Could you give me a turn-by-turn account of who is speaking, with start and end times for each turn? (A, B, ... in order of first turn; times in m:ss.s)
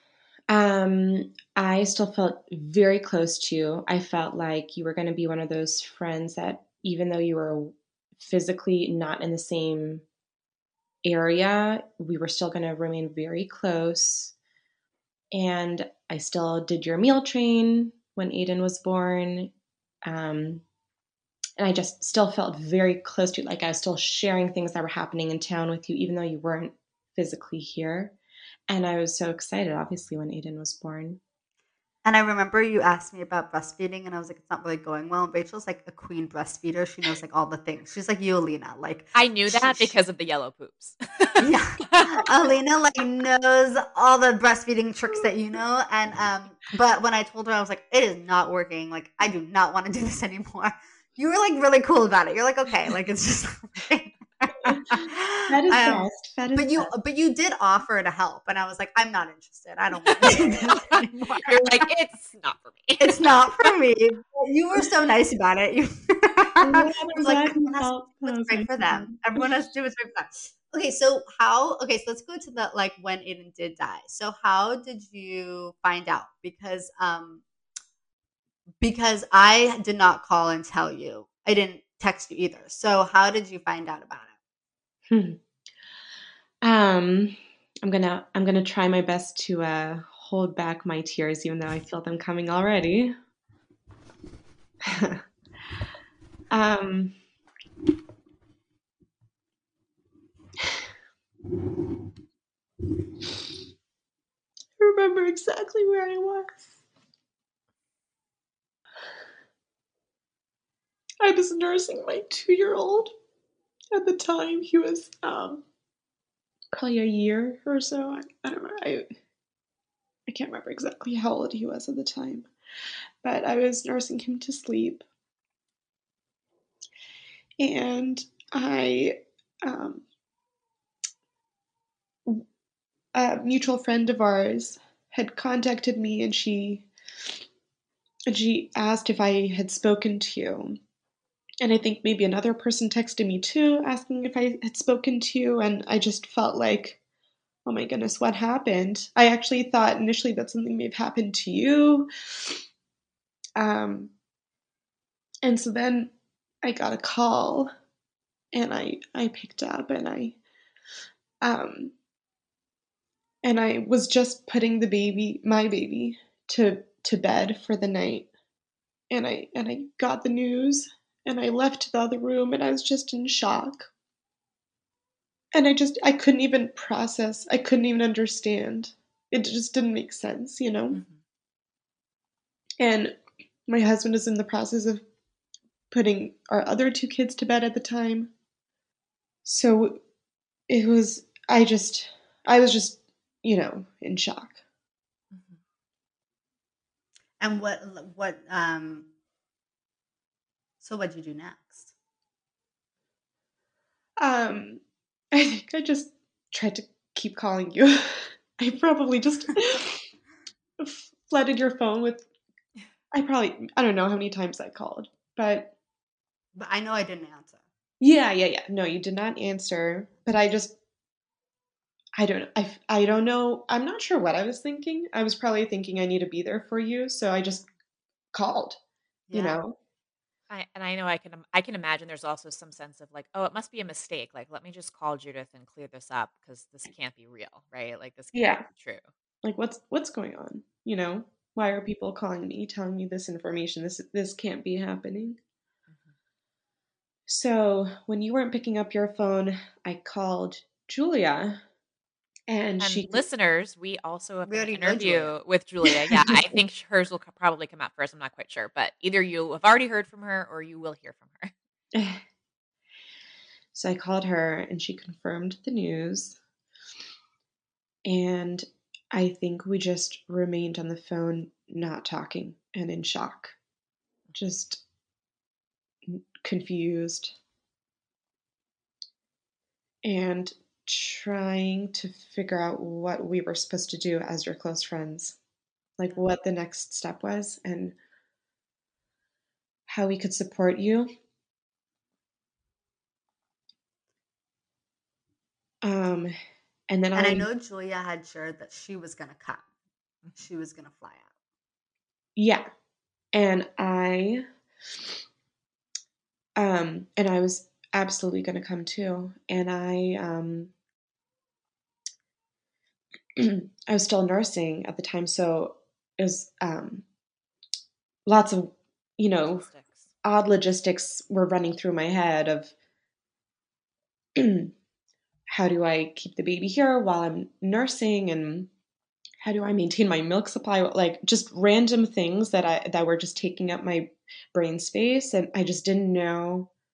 0:00.5-0:10.0 A
0:11.0-0:14.3 A
0:15.3-0:19.5 A
0:20.0-0:20.6 A
0:21.6-0:28.2 A
0:28.7-0:31.2 A
0:32.0-0:39.9 B
0:39.1-0:42.2 C
0:41.4-0:55.1 B
0:55.5-0:56.9 A
0:55.7-1:01.8 B
1:00.2-1:03.7 C
1:03.0-1:17.4 B
1:06.6-1:09.2 A
1:18.8-1:24.3 B
1:25.1-1:25.4 A
1:26.6-1:33.1 A
1:34.8-1:35.2 A
1:36.5-1:37.1 A
1:40.6-1:40.9 A
1:44.8-1:46.7 A
1:51.2-1:53.1 A
1:53.9-1:55.6 A
1:56.7-1:59.1 A
2:00.3-2:02.5 A
2:03.2-2:05.0 A
2:07.6-2:10.0 A
2:13.1-2:16.9 A
2:18.3-2:20.8 A
2:21.6-2:27.0 A
2:27.6-2:32.6 A
2:33.6-2:34.1 A
2:35.4-2:36.1 A
2:36.6-2:37.7 A
2:38.5-2:40.4 A
2:41.4-2:41.9 A
2:43.4-2:48.3 A
2:49.1-2:53.9 A
2:55.5-3:01.0 A
3:00.9-3:01.2 C
3:02.8-3:03.2 A
3:03.7-3:05.0 A
3:05.9-3:08.3 A
3:09.4-3:10.0 A
3:10.7-3:14.6 A
3:15.3-3:15.6 C
3:17.4-3:19.1 B
3:20.8-3:21.9 B
3:24.2-3:30.1 A
3:30.8-3:32.3 A
3:33.1-3:35.7 A
3:36.6-3:37.6 B
3:38.0-3:40.7 A
3:42.2-3:47.7 A
3:48.3-3:48.8 A
3:49.3-3:49.6 B
3:49.3-3:49.8 A
3:50.5-3:59.0 C
3:58.3-3:58.7 A
3:59.4-4:05.4 A
4:07.3-4:11.6 A
4:12.5-4:13.2 A
4:12.8-4:21.5 C
4:14.5-4:15.3 B
4:15.8-4:16.6 A
4:21.9-4:22.2 A
4:23.7-4:26.4 A
4:28.0-4:33.6 A
4:34.3-4:34.8 A
4:36.0-4:37.4 A
4:40.0-4:45.4 A
4:46.0-4:48.0 A
4:49.9-4:51.1 A
4:55.8-4:56.3 A
4:56.9-4:57.5 A
4:57.1-4:59.6 B
5:00.4-5:01.3 B
5:02.4-5:02.6 A
5:03.3-5:04.4 A
5:06.6-5:10.7 A
5:13.4-5:17.0 A
5:18.2-5:19.7 A
5:19.4-5:20.0 C
5:20.2-5:22.7 A
5:24.4-5:24.7 A
5:25.5-5:28.7 A
5:29.4-5:36.7 A